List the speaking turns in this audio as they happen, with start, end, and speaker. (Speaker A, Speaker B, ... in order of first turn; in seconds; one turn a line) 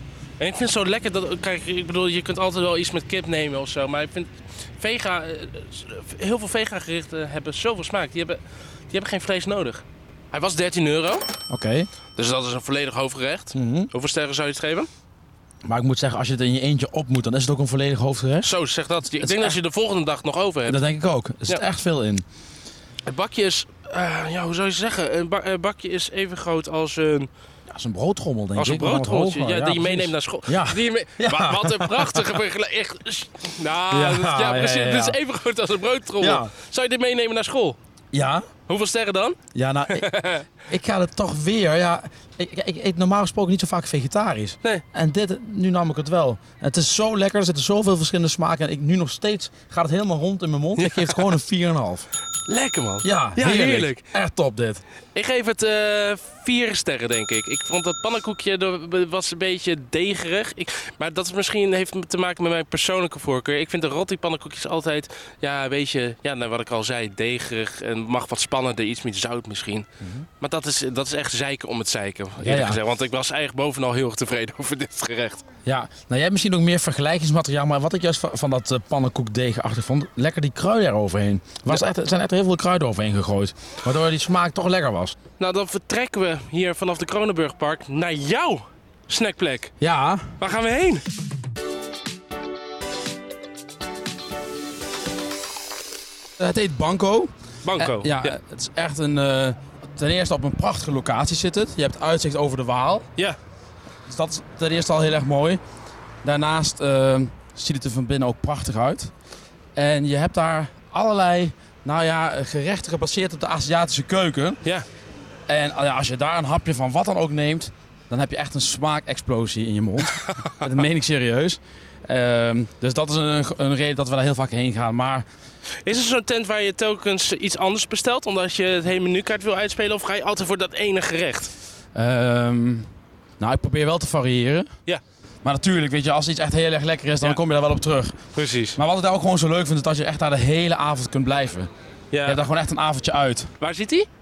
Speaker A: 0.4-11.2
Speaker B: 11.5-11.9
Speaker A: 12.2-14.9
Speaker B: 13.6-13.9
Speaker B: 15.7-18.5
Speaker A: 18.4-20.8
Speaker B: 19.1-19.6
Speaker B: 20.7-22.2
Speaker A: 23.1-27.3
Speaker B: 27.7-32.4
Speaker A: 28.6-37.8
Speaker B: 33.9-35.2
Speaker B: 36.2-36.5
Speaker B: 38.1-38.5
Speaker A: 38.7-39.4
Speaker B: 39.5-40.1
Speaker A: 39.9-40.5
Speaker B: 40.7-52.1
Speaker A: 50.8-51.2
Speaker A: 52.5-54.1
Speaker B: 53.0-54.8
Speaker A: 55.1-69.9
Speaker B: 70.0-70.3
Speaker A: 70.4-75.4
Speaker B: 72.4-72.8
Speaker B: 75.7-85.2
Speaker A: 85.4-89.7
Speaker B: 89.8-90.3
Speaker A: 90.4-91.0
Speaker B: 96.4-103.1
Speaker A: 97.7-98.4
Speaker B: 104.1-105.6
Speaker B: 106.2-109.1
Speaker B: 109.8-114.6
Speaker B: 115.5-125.3
Speaker A: 125.8-131.5
Speaker B: 131.9-134.7
Speaker B: 135.4-138.2
Speaker A: 138.3-138.8
Speaker B: 138.8-141.7
Speaker A: 142.1-142.4
Speaker B: 142.3-143.5
Speaker A: 143.6-144.1